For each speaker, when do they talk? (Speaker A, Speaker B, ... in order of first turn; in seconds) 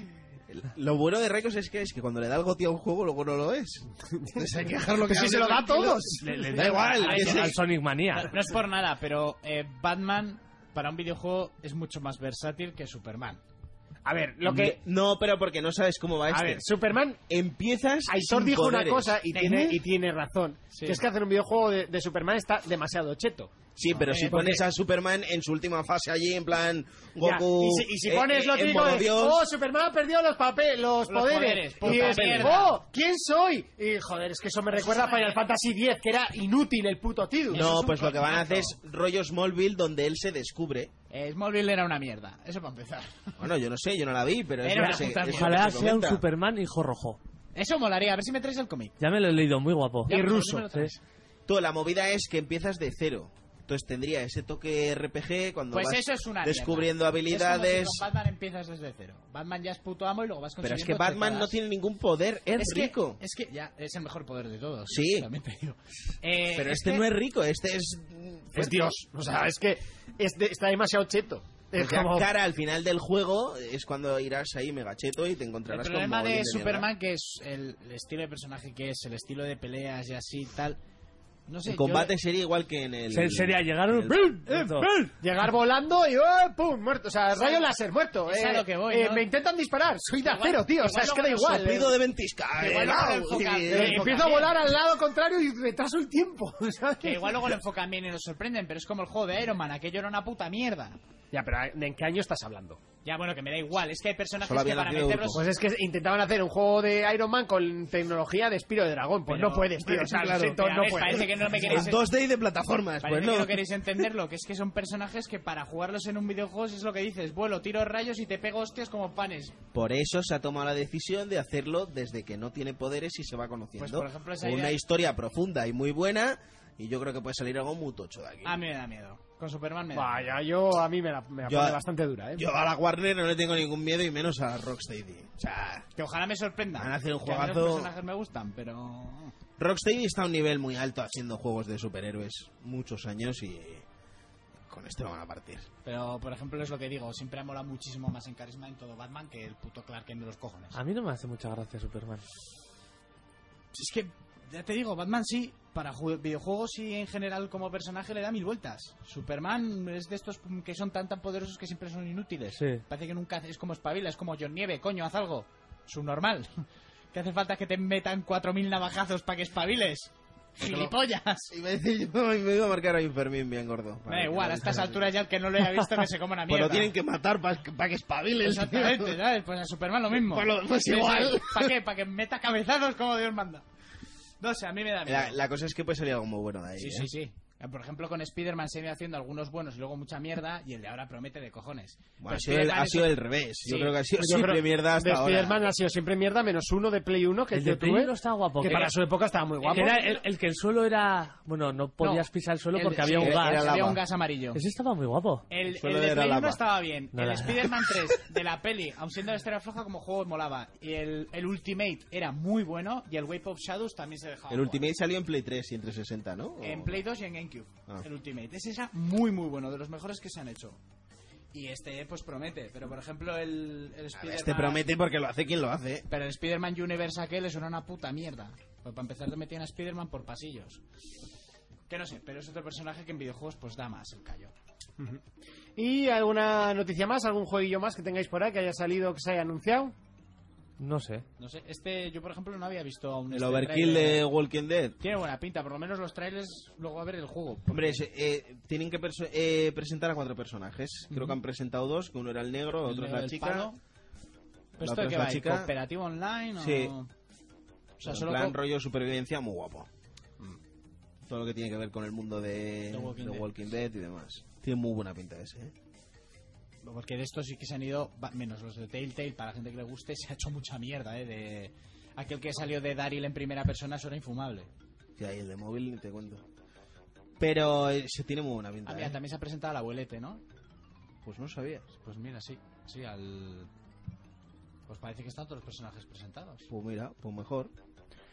Speaker A: 0.5-7.5, 14.4-16.6, 17.3-19.5, 23.8-29.4, 31.9-32.5, 37.5-40.9, 43.4-46.2, 51.5-58.0, 60.6-63.2, 64.9-65.3, 66.5-68.9, 71.7-76.9, 81.7-84.3, 91.4-94.4, 104.4-105.4, 109.8-113.7, 119.7-128.6, 131.4-131.8, 132.3-135.8, 136.8-137.9, 139.6-143.8, 144.7-145.7, 170.6-170.9, 171.5-175.1, 176.5-179.2, 180.1-181.7, 185.1-187.1, 192.2-195.6, 203.1-204.0, 205.7-206.6, 214.5-217.0, 224.2-226.1, 243.3-244.9, 247.7-253.7, 254.8-255.7, 256.6-256.9, 258.0-259.9, 261.3-265.7, 275.2-276.4, 277.4-279.2, 281.2-281.8, 286.7-287.7
Speaker B: 4.2-7.0, 14.0-14.8, 16.3-17.2, 18.1-23.5, 24.3-24.6, 27.2-37.7, 50.0-50.7, 68.5-72.3, 85.0-92.0, 93.7-97.5, 101.3-102.8, 105.3-111.9, 129.9-132.5, 194.2-200.0, 235.8-239.9
Speaker C: 6.2-8.3, 45.2-47.2, 49.0-50.2, 83.1-84.9, 150.7-152.2, 162.6-162.8, 197.5-198.9, 199.7-203.8, 204.5-205.4, 207.1-207.6, 240.8-241.2
Speaker D: 7.0-7.6, 8.1-13.4, 19.3-19.7, 20.7-21.0, 24.0-24.6, 31.1-32.8, 34.7-35.4, 37.5-38.8, 41.1-43.4, 44.6-45.6, 47.5-49.0, 50.0-51.0, 55.7-61.5, 62.6-67.1, 75.7-80.8, 81.5-82.1, 84.5-85.1, 87.3-87.6, 88.3-89.2, 90.2-91.6, 92.6-94.6, 97.0-101.0, 103.0-105.4, 109.3-112.0, 113.0-119.5, 123.8-124.8, 128.4-130.3, 135.9-139.3, 145.8-150.8, 153.7-171.5, 174.1-176.9, 178.4-183.6, 184.4-185.4, 186.8-194.0, 198.6-198.9, 199.6-200.2, 202.0-204.6, 205.5-214.9, 216.6-220.8, 221.5-224.8, 226.1-230.8, 231.9-234.5, 241.4-244.2, 245.0-248.0, 251.1-251.4, 252.8-253.8, 254.8-257.1, 258.0-258.6, 262.9-263.5, 266.8-274.7, 278.9-280.4, 282.0-283.7, 284.9-286.7